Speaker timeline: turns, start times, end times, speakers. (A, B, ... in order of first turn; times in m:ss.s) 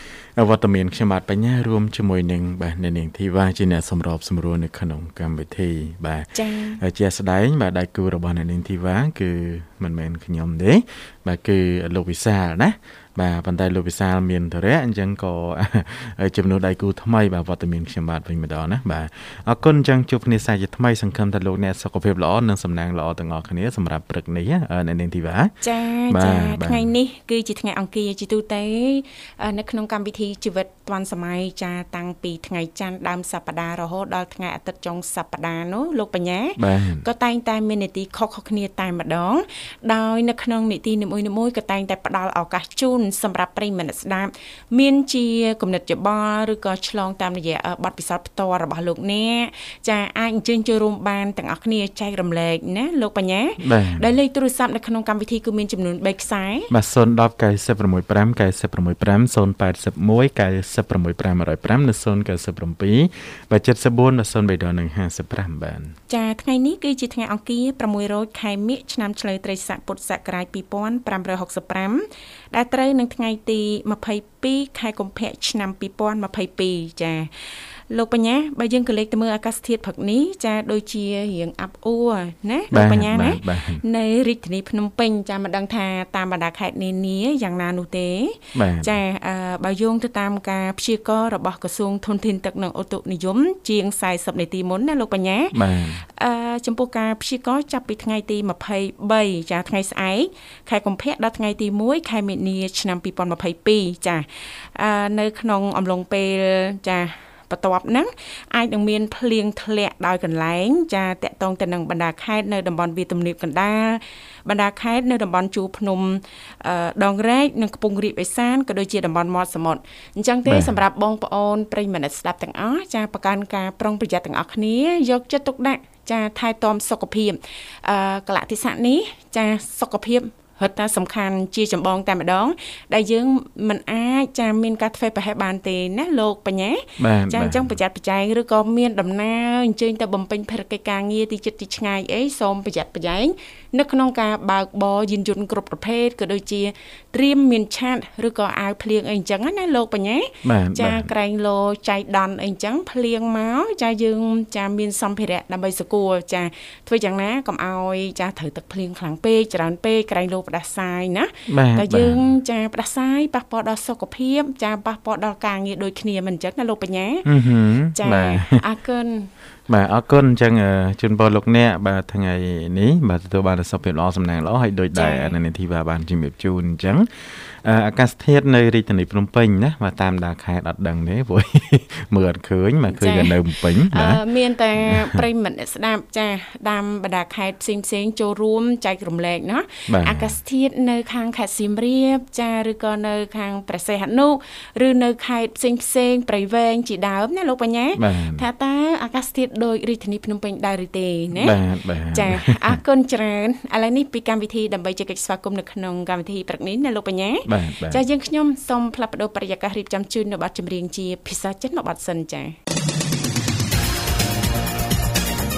0:00.4-0:25.5 A
0:06.4-0:06.8 B
0:25.6-0:56.7 B
0:26.1-0:26.9 A
0:36.6-0:37.1 A
0:53.6-0:54.1 A
0:56.7-1:06.0 A
1:06.1-1:35.6 B
1:22.7-1:23.8 A
1:28.6-1:29.0 A
1:35.5-1:36.0 A
1:36.1-2:47.3 B
2:00.5-2:00.8 A
2:17.0-2:17.8 A
2:30.4-2:31.1 A
2:41.5-2:42.3 A
2:47.3-2:48.6 A
2:48.0-2:49.3 B
2:49.7-3:04.2 A
2:54.9-2:55.4 B
3:02.9-3:21.6 B
3:04.8-3:05.2 A
3:09.9-3:10.4 A
3:18.0-3:18.5 A
3:21.4-3:22.8 A
3:22.1-3:32.6 B
3:27.5-3:28.0 A